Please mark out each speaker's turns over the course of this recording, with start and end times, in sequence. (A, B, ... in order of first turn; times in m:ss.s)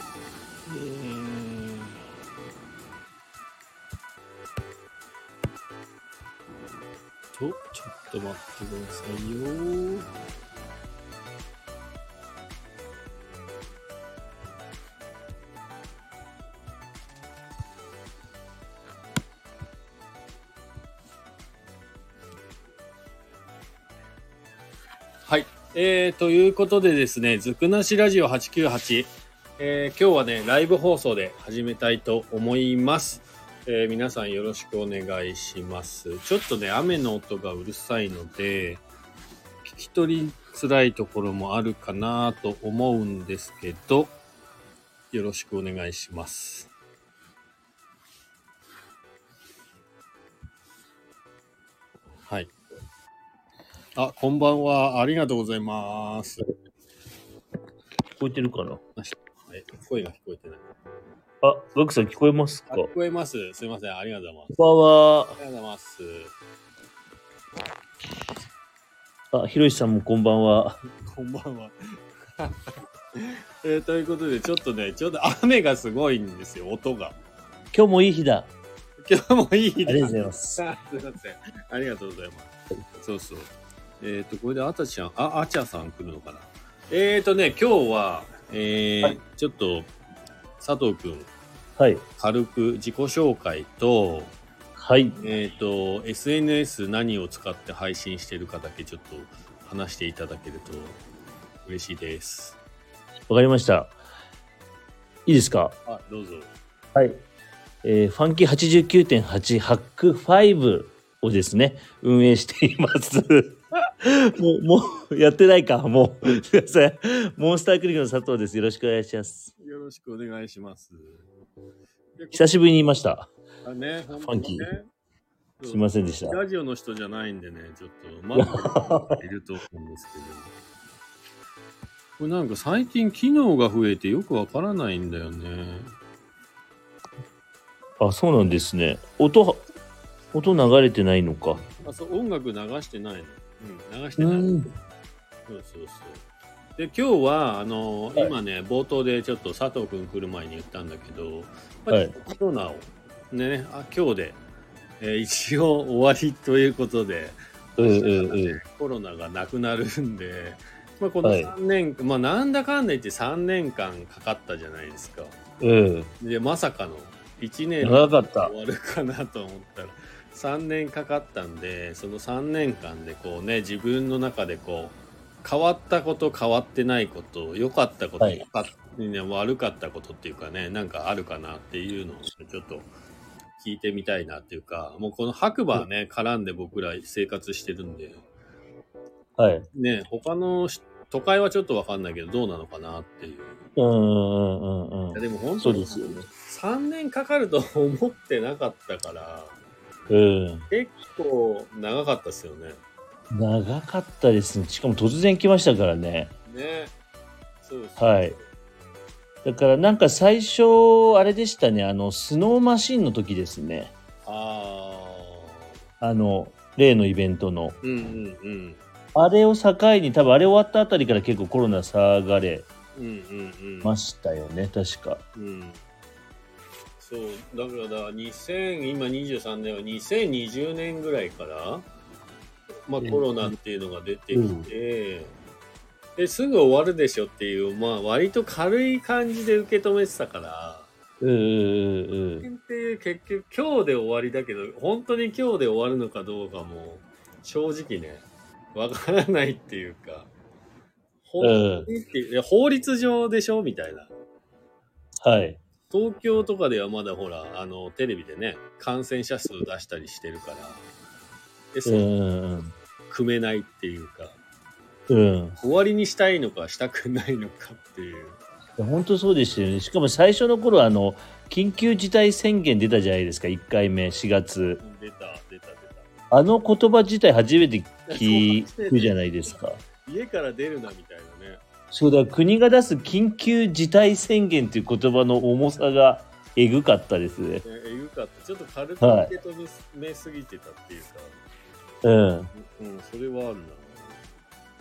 0:00.6-0:02.0 A
0:07.3-0:10.1 A
0:25.2-0:38.8 A
0:39.6-0:44.1 A
0:45.1-0:46.7 A
0:52.3-0:52.5 A
0:54.0-0:56.5 A
0:58.2-0:58.8 B
0:59.0-1:00.7 A
1:01.4-1:02.9 B
1:02.7-1:04.6 A
1:04.5-1:05.4 B
1:05.4-1:06.3 A
1:09.3-1:10.8 B
1:11.0-1:17.2 A
1:17.7-1:18.5 B
1:19.0-1:29.9 A
1:19.8-1:20.6 B
1:30.6-1:31.3 A
1:31.8-1:32.0 B
1:32.2-1:34.3 A
1:34.8-1:35.2 B
1:35.2-1:41.0 A
1:41.6-1:42.6 A
1:43.3-1:44.0 B
1:45.2-1:45.8 B
1:45.8-1:46.5 A
1:46.9-1:47.2 B
1:47.8-1:59.5 B
1:59.6-2:01.2 A
2:02.2-2:02.5 A
2:02.3-2:03.3 B
2:03.6-2:04.8 A
2:04.2-2:04.6 B
2:05.6-2:10.5 A
2:05.7-2:06.4 B
2:08.4-2:09.2 B
2:12.2-2:15.9 A
2:18.0-2:19.6 B
2:20.3-2:21.7 B
2:21.8-2:24.6 A
2:24.2-2:24.7 B
2:25.5-2:26.2 A
2:26.8-2:34.4 A
2:35.0-2:45.4 A
2:37.8-2:38.6 B
2:41.2-2:41.5 B
2:45.6-2:46.1 B
2:46.2-3:02.9 A
2:47.8-2:48.5 B
3:03.6-3:08.2 A
3:09.4-3:09.6 B
3:09.7-3:13.7 A
3:13.8-3:16.2 B
3:15.1-3:19.6 A
3:20.1-3:20.6 B
3:20.7-3:22.8 A
3:23.3-3:26.3 B
3:26.5-3:26.9 A
3:27.6-3:28.4 A
3:28.0-3:28.4 B
3:29.4-3:33.9 B
3:34.2-3:35.7 A
3:36.0-3:37.8 B
3:37.8-3:38.8 A
3:39.1-3:42.7 B
3:42.9-3:43.9 A
3:43.8-3:45.2 B
3:45.4-3:45.8 A
3:47.0-3:51.8 A
3:52.9-3:55.3 A
3:53.0-3:53.5 B
3:54.3-3:54.7 B
3:56.2-4:00.9 A
4:01.2-4:02.4 B
4:02.4-4:10.3 A
4:11.2-4:14.1 A
4:11.4-4:11.9 B
4:15.2-4:15.6 B
4:15.9-4:20.9 A
4:21.7-4:22.0 A
4:21.8-4:22.7 B
4:23.1-4:24.4 A
4:25.1-4:25.6 B
4:25.6-4:28.4 A
4:28.8-4:34.8 B
4:34.8-4:36.1 A
4:36.3-4:39.8 B
4:38.1-4:39.4 A
4:40.0-4:41.6 A
4:41.9-4:47.6 B
4:47.6-4:51.4 A
4:49.0-4:49.3 B
4:52.0-4:52.5 B
4:52.5-4:54.2 A